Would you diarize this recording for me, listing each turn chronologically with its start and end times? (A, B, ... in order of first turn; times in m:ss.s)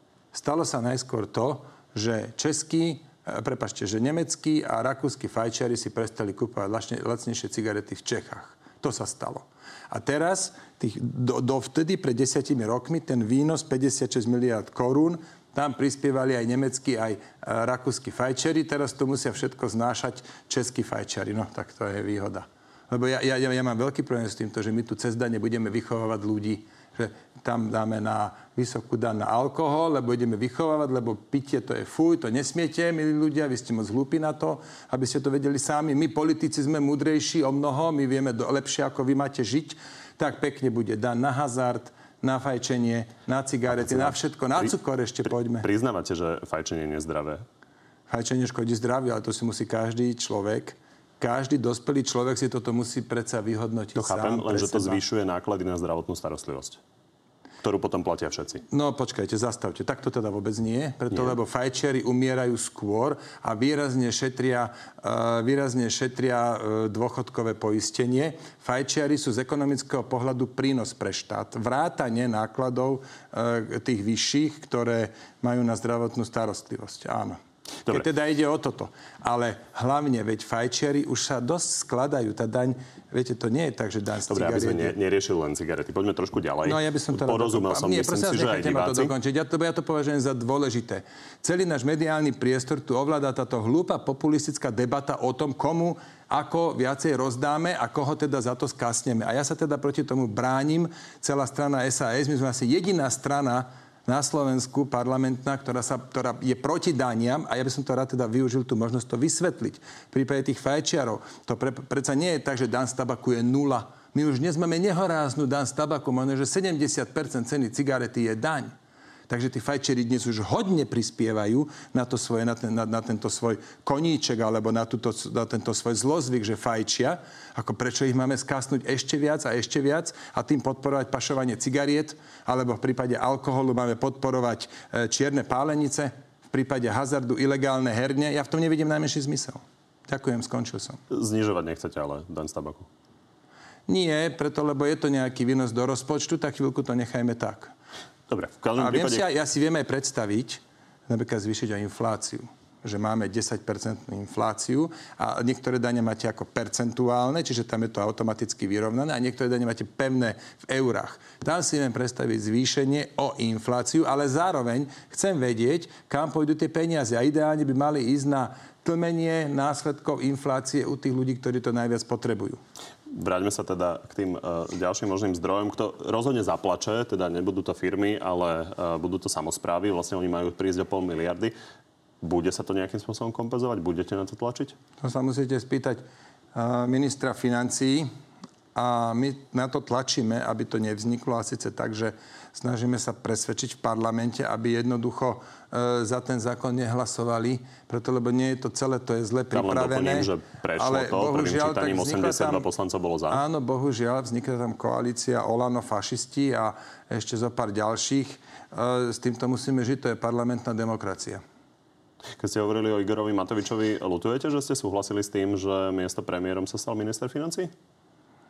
0:00.3-0:45.7 A
0:43.7-0:44.7 B
0:45.5-0:47.4 B
0:48.1-0:55.0 A
0:54.0-0:56.8 B
0:57.6-0:58.6 B
0:58.7-1:25.0 A
1:24.3-1:29.1 B
1:26.6-1:58.7 A
1:59.3-2:21.0 A
2:21.1-2:22.9 B
2:23.9-2:27.7 A
2:28.3-2:29.3 B
2:28.8-2:52.6 A
2:53.1-3:01.5 B
3:02.2-3:04.8 B
3:05.0-3:06.0 A
3:06.6-3:08.1 A
3:08.8-3:22.7 A
3:19.5-3:23.4 B
3:23.3-3:31.4 A
3:32.4-3:37.7 B